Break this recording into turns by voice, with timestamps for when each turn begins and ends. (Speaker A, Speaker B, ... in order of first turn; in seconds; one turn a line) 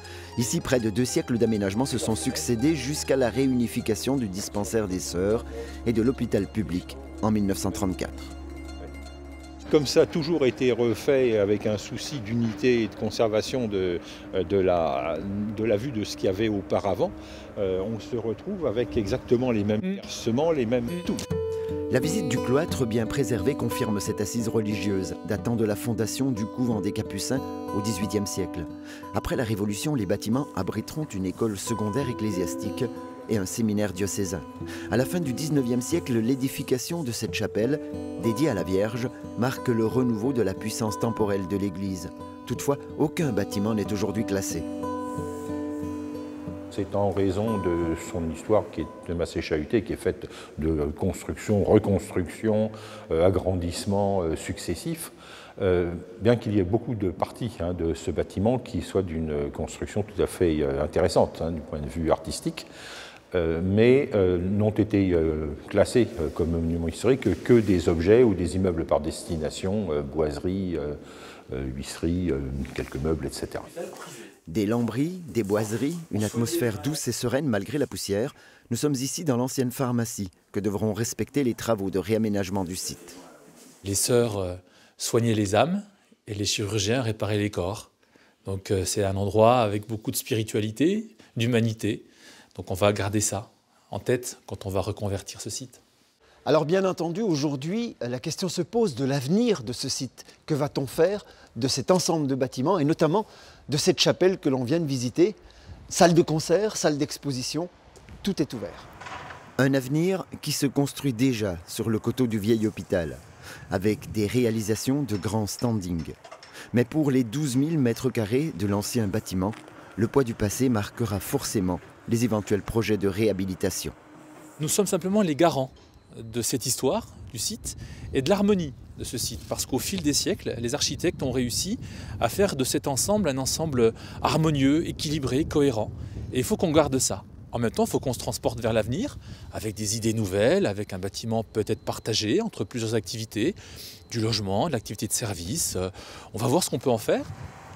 Speaker A: 0.3-8.3
Speaker B: 9.7-21.2
Speaker A: 21.9-44.7
Speaker B: 46.7-62.7
Speaker B: 63.3-71.0
Speaker B: 71.5-73.8
Speaker A: 74.5-83.2
Speaker C: 83.8-87.9
Speaker C: 88.4-95.8
Speaker D: 96.5-105.4
Speaker D: 105.9-107.7
Speaker D: 108.2-108.9
Speaker A: 109.6-116.1
Speaker A: 116.7-123.9
Speaker C: 124.6-143.6
Speaker C: 144.1-147.3